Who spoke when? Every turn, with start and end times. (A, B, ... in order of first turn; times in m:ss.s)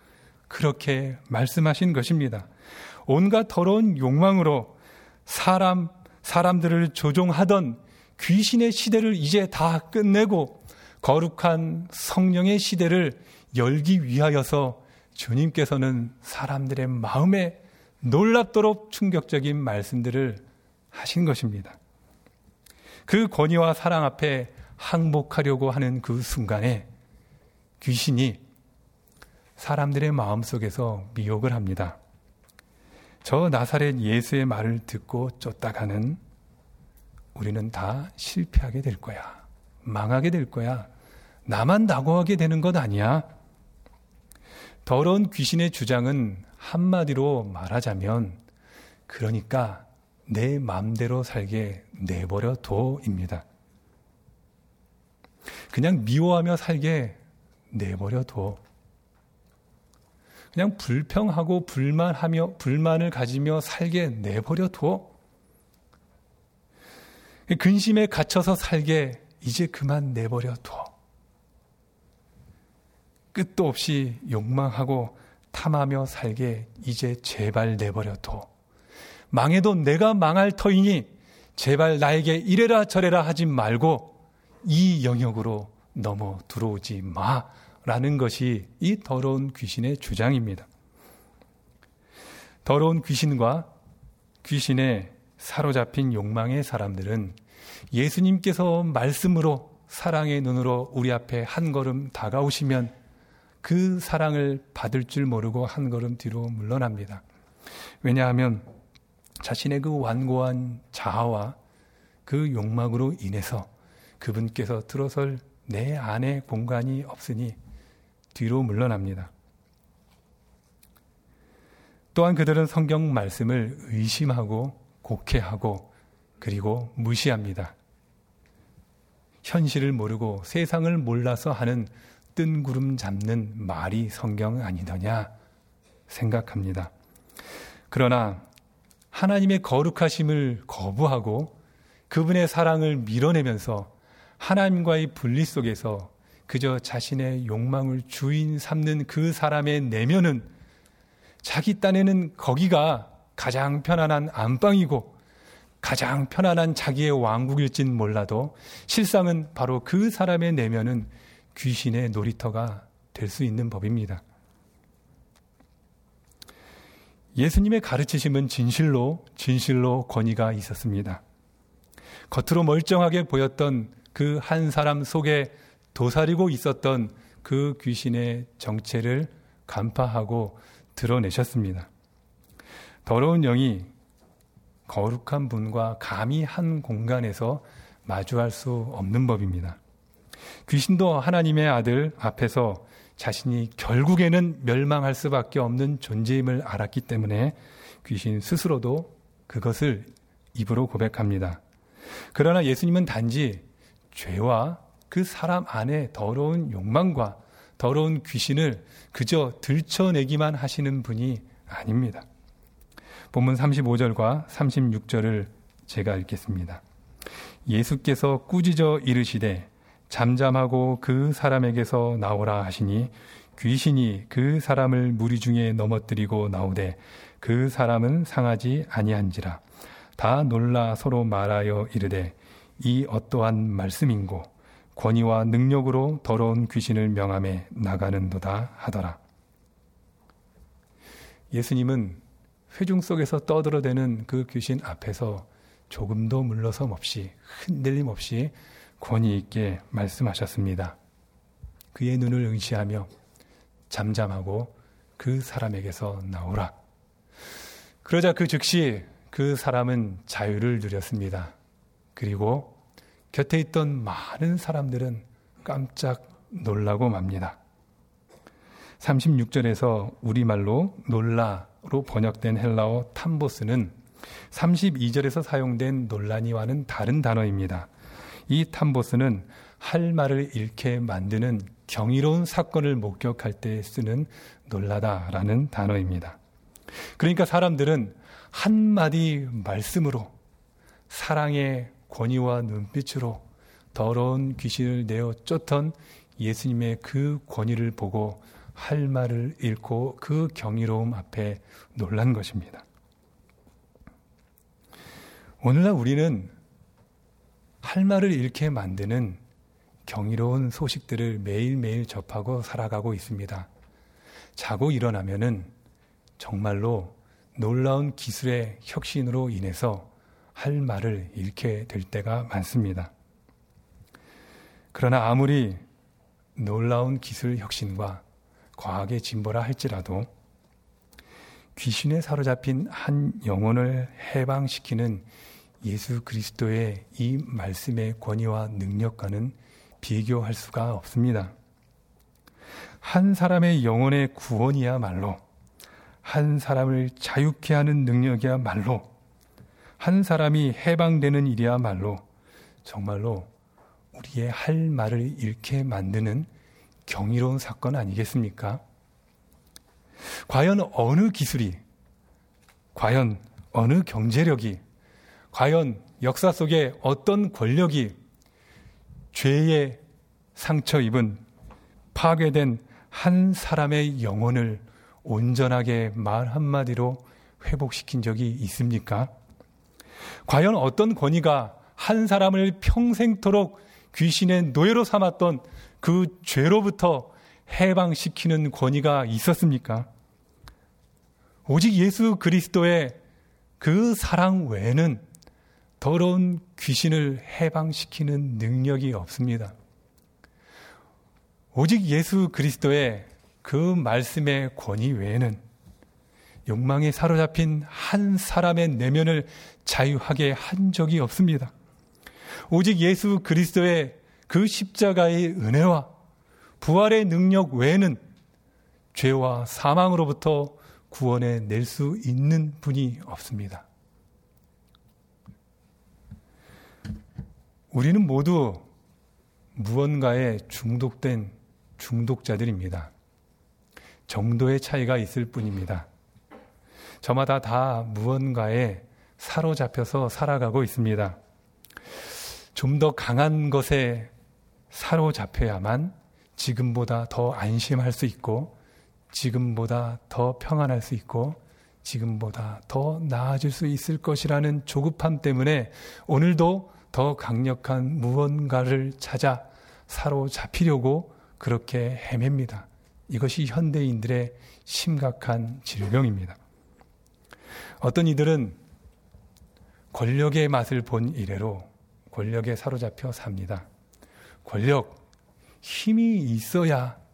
0:00.5-0:02.5 A
0:03.1-0:04.8 A
0:05.3-0:21.8 A
0:23.1-0:26.9 A
0:27.8-0:28.4 A
0:29.6-0:32.0 A
0:33.2-0:36.2 A
0:37.3-0:40.9 A
0:41.5-0:43.3 A
0:44.8-0:48.4 A
0:49.1-0:53.4 A
0:55.7-0:57.2 A
0:57.7-0:58.6 A
1:00.5-1:05.1 A
1:07.5-1:10.9 A
1:13.3-1:18.5 A
1:19.3-1:30.7 A
1:32.6-1:33.7 A
1:34.4-1:37.4 A
1:37.9-1:42.9 A
1:43.6-1:47.2 A
1:48.0-1:48.7 A
1:49.4-1:51.6 A
1:52.3-1:53.7 A
1:54.2-1:57.6 A
1:58.3-1:59.3 A
2:02.1-2:05.9 A
2:06.4-2:07.7 A
2:09.4-2:15.3 A
2:16.1-2:16.9 A
2:17.9-2:18.4 A
2:19.1-2:21.6 A
2:22.1-2:30.5 A
2:31.4-2:35.2 A
2:35.8-2:44.2 A
2:47.4-2:51.2 A
2:52.3-3:01.9 A
3:03.1-3:03.9 A
3:04.9-3:09.8 A
3:10.7-3:21.6 A
3:22.3-3:32.2 A
3:33.3-3:36.8 A
3:37.7-3:49.6 A
3:50.2-3:59.2 A
4:01.5-4:11.0 A
4:11.9-4:13.1 A
4:13.9-4:16.8 A
4:18.0-4:21.5 A
4:22.2-4:22.8 A
4:23.3-4:27.6 A
4:29.0-4:34.0 A
4:34.5-4:37.9 A
4:38.5-4:46.4 A
4:47.2-4:50.3 A
4:51.1-5:02.8 A
5:05.6-5:06.5 A
5:07.8-5:09.4 A
5:10.1-5:13.7 A
5:14.6-5:15.7 A
5:16.4-5:23.1 A
5:24.9-5:25.8 A
5:26.6-5:28.2 A
5:28.8-5:30.3 A
5:31.8-5:35.3 A
5:35.8-5:41.5 A
5:43.0-5:45.4 A
5:46.2-5:49.1 A
5:50.0-5:52.2 A
5:52.8-5:53.5 A
5:54.1-5:56.5 A
5:57.1-5:58.8 A
6:00.5-6:01.8 A
6:03.0-6:04.8 A
6:05.5-6:08.2 A
6:09.3-6:10.0 A
6:10.6-6:11.4 A
6:12.1-6:19.3 A
6:20.5-6:30.1 A
6:31.7-6:33.2 A
6:33.8-6:35.2 A
6:36.0-6:39.7 A
6:41.7-6:45.6 A
6:46.7-6:51.7 A
6:52.7-6:56.1 A
6:56.8-6:58.2 A
6:59.1-7:03.8 A
7:07.9-7:08.9 A
7:09.8-7:13.1 A
7:14.3-7:16.1 A
7:17.2-7:21.4 A
7:22.7-7:24.3 A
7:24.9-7:28.7 A
7:29.3-7:46.6 A
7:48.0-7:48.8 A
7:50.1-7:53.8 A
7:54.6-7:55.2 A
7:55.8-7:57.2 A